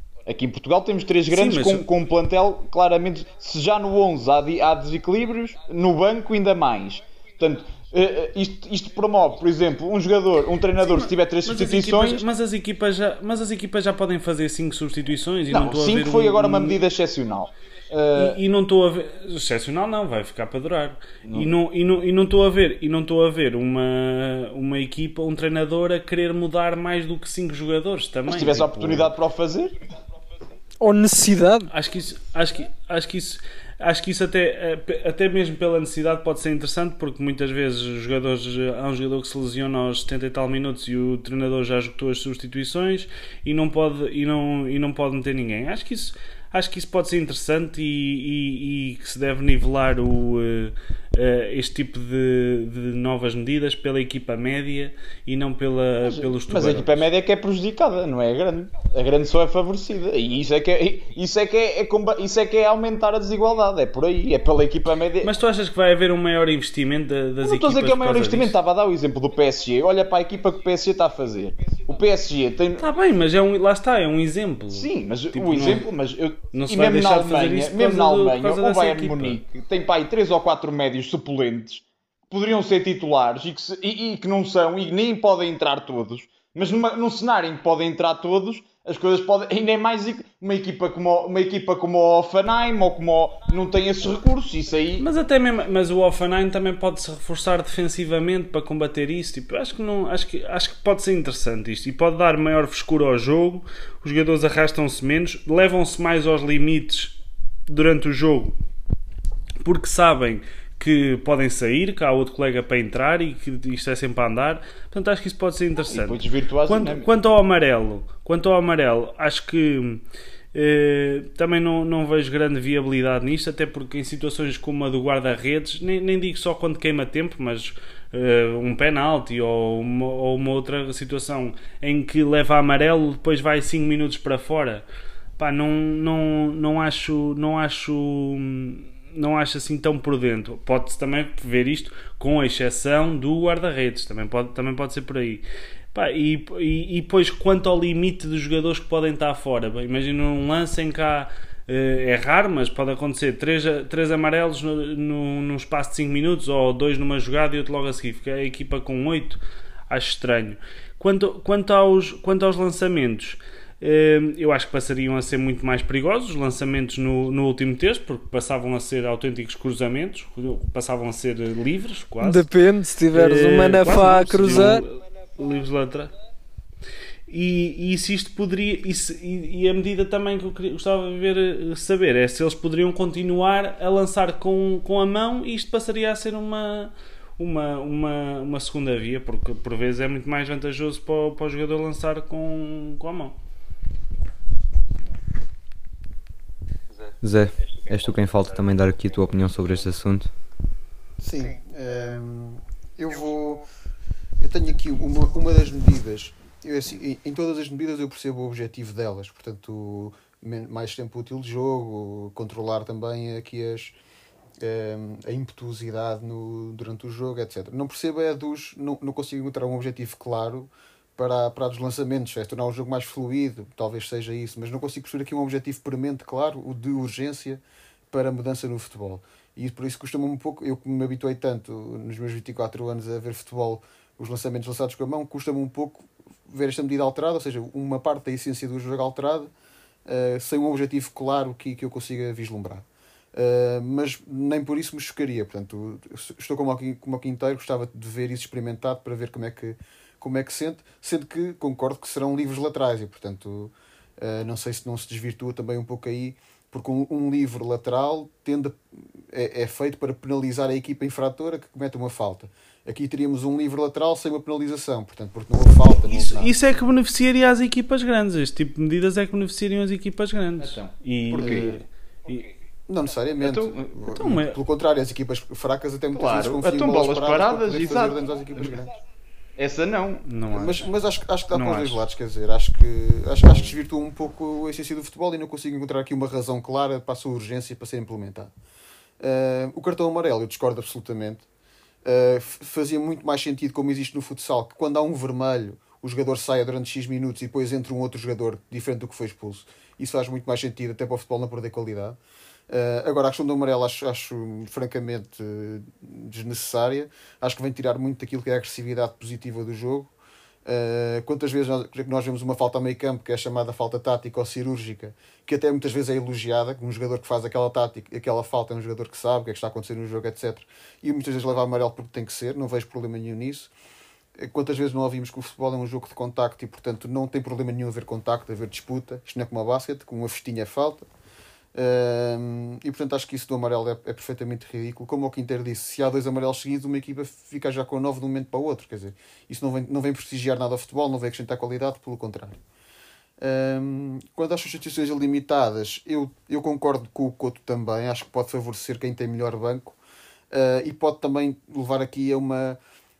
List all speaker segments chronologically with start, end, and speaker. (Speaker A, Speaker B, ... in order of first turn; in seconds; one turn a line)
Speaker A: 0.2-12.2
Speaker B: 1.3-1.8
Speaker B: 10.8-16.8
Speaker A: 15.5-18.4
Speaker B: 18.1-29.1
Speaker A: 28.3-29.8
Speaker C: 30.8-31.7
Speaker B: 31.7-57.1
Speaker A: 56.1-65.3
Speaker B: 65.2-68.5
Speaker A: 67.4-72.8
Speaker B: 72.8-75.9
Speaker A: 74.7-95.1
Speaker B: 76.5-79.4
Speaker B: 95.0-107.2
Speaker B: 107.7-108.5
Speaker B: 109.6-120.0
Speaker A: 115.9-117.1
Speaker B: 120.5-134.8
Speaker B: 135.4-145.4
Speaker B: 145.9-172.5
Speaker C: 172.2-174.8
Speaker B: 173.1-176.1
Speaker B: 177.3-193.3
Speaker D: 197.2-200.3
Speaker E: 201.2-203.7
Speaker E: 204.4-213.9
Speaker E: 214.6-239.5
Speaker E: 240.1-266.5
Speaker B: 266.0-272.5
Speaker A: 270.6-271.8
Speaker E: 271.4-271.8
Speaker E: 272.9-278.9
Speaker A: 273.4-274.0
Speaker B: 274.1-274.6
Speaker A: 276.1-278.7
Speaker A: 279.6-280.3
Speaker B: 280.3-280.8
Speaker E: 280.5-288.5
Speaker B: 281.5-282.0
Speaker E: 289.2-291.4
Speaker E: 292.0-302.2
Speaker E: 302.7-310.1
Speaker E: 310.6-323.7
Speaker E: 324.4-331.1
Speaker E: 331.7-342.6
Speaker E: 343.4-349.9
Speaker E: 350.5-352.8